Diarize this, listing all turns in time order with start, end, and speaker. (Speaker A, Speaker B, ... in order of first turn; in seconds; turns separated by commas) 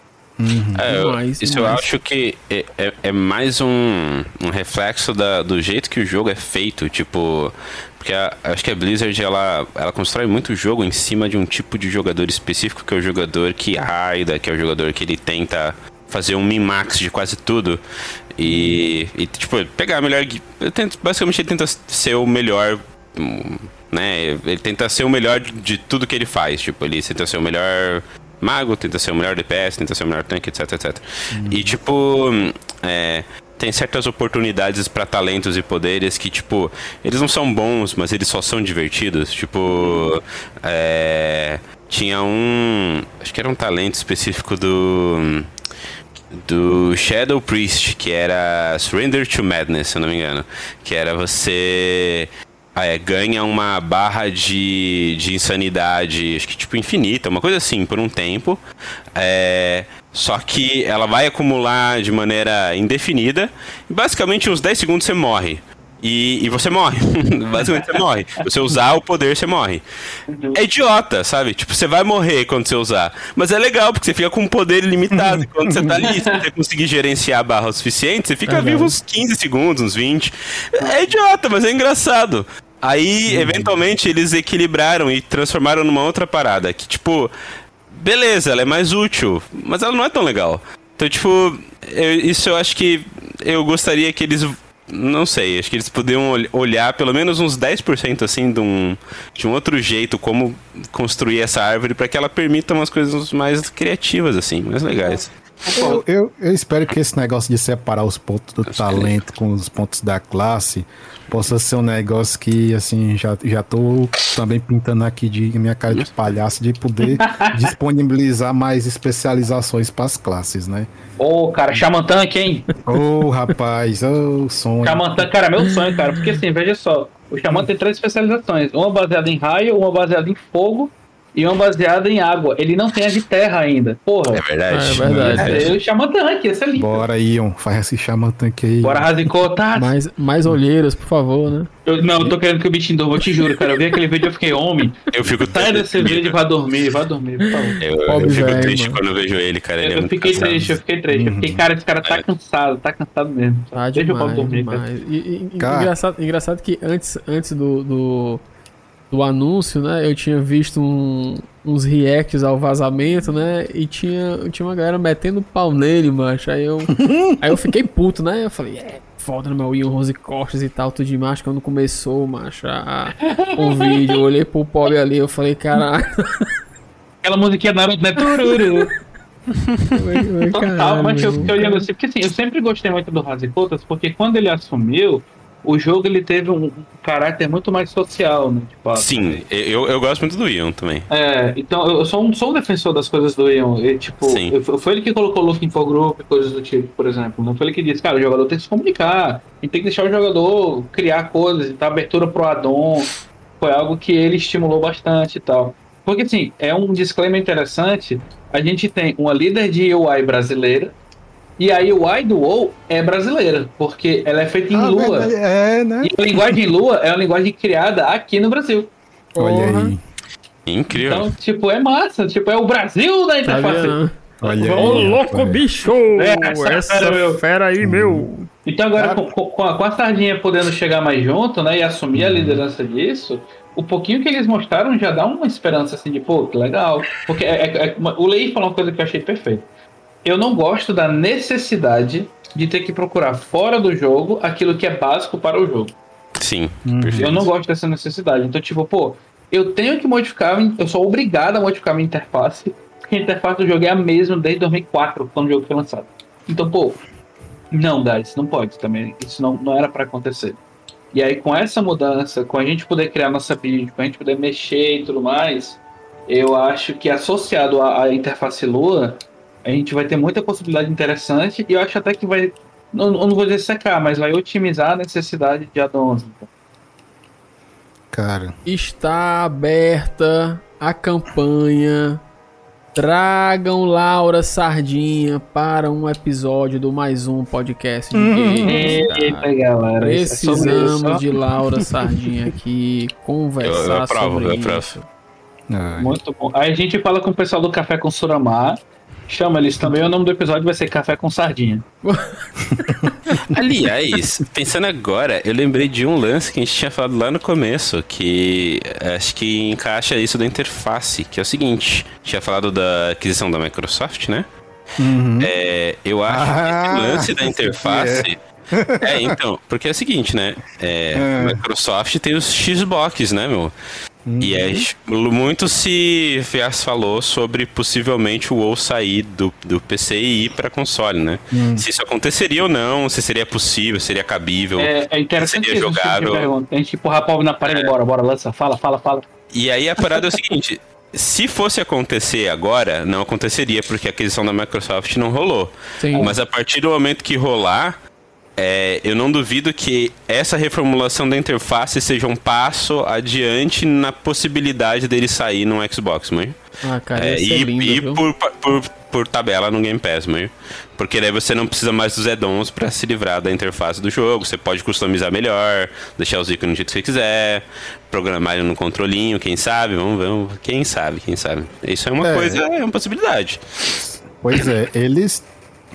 Speaker A: 0.4-0.9, Speaker B: 0.8-17.8, Speaker C: 0.8-1.9, Speaker B: 18.4-45.5, Speaker D: 18.4-18.7, Speaker A: 31.3-31.8, Speaker D: 39.7-40.1, Speaker B: 46.3-58.6, Speaker B: 59.1-69.8, Speaker D: 70.3-70.6, Speaker B: 70.5-87.3, Speaker A: 75.1-76.0, Speaker D: 75.8-76.4, Speaker C: 78.5-78.9, Speaker A: 83.3-83.7, Speaker B: 87.9-105.3, Speaker D: 105.0-106.0, Speaker A: 105.7-120.9, Speaker B: 108.7-109.2, Speaker D: 117.1-117.6, Speaker D: 121.2-122.7, Speaker A: 122.8-125.3, Speaker D: 124.8-134.4, Speaker B: 134.3-135.8, Speaker C: 134.7-135.7, Speaker A: 135.0-135.7, Speaker D: 135.4-137.0, Speaker A: 136.7-139.1, Speaker D: 138.8-139.9, Speaker C: 139.7-141.7, Speaker D: 141.8-145.0, Speaker B: 145.1-146.3, Speaker D: 145.5-147.8, Speaker C: 147.4-149.0, Speaker B: 147.8-150.7, Speaker A: 148.1-148.6, Speaker D: 149.8-154.8, Speaker A: 150.4-151.6, Speaker C: 153.7-158.4, Speaker A: 155.6-155.9, Speaker C: 159.1-176.4, Speaker A: 166.9-167.3, Speaker D: 173.3-173.9, Speaker D: 177.2-178.9, Speaker C: 179.9-181.9, Speaker D: 180.5-189.4, Speaker B: 188.9-191.1, Speaker D: 191.1-210.9, Speaker B: 194.2-194.5, Speaker D: 211.6-215.3, Speaker A: 214.7-216.6, Speaker D: 216.0-218.9, Speaker C: 219.3-219.9, Speaker A: 219.4-220.0, Speaker B: 220.7-221.3, Speaker D: 220.9-225.2, Speaker C: 223.4-224.2, Speaker A: 224.4-225.6, Speaker C: 224.7-228.5, Speaker D: 226.2-227.4, Speaker A: 227.8-228.3, Speaker D: 228.6-239.7, Speaker A: 228.9-229.3, Speaker A: 232.1-232.6, Speaker D: 240.2-245.9, Speaker B: 246.4-247.5, Speaker A: 246.8-247.5, Speaker D: 247.2-257.0, Speaker D: 257.7-260.6, Speaker D: 261.1-276.5, Speaker A: 278.1-278.6, Speaker C: 278.6-282.2, Speaker C: 282.9-295.1, Speaker A: 288.1-289.0, Speaker D: 288.6-291.2, Speaker A: 290.5-290.8, Speaker B: 293.6-294.9, Speaker A: 295.7-296.2, Speaker D: 296.0-301.8, Speaker C: 302.0-303.3, Speaker B: 303.5-314.4, Speaker A: 315.0-315.5, Speaker B: 315.4-318.4, Speaker A: 316.2-319.4, Speaker B: 319.0-323.7, Speaker A: 321.1-321.6, Speaker A: 324.2-324.9, Speaker B: 324.4-336.5, Speaker A: 331.5-331.8, Speaker D: 334.8-339.2, Speaker B: 337.7-337.9, Speaker B: 339.5-348.0, Speaker D: 340.0-340.3, Speaker C: 346.0-346.3, Speaker B: 348.6-356.6, Speaker C: 356.8-358.2, Speaker B: 357.1-373.6, Speaker A: 372.2-372.6, Speaker A: 374.0-375.4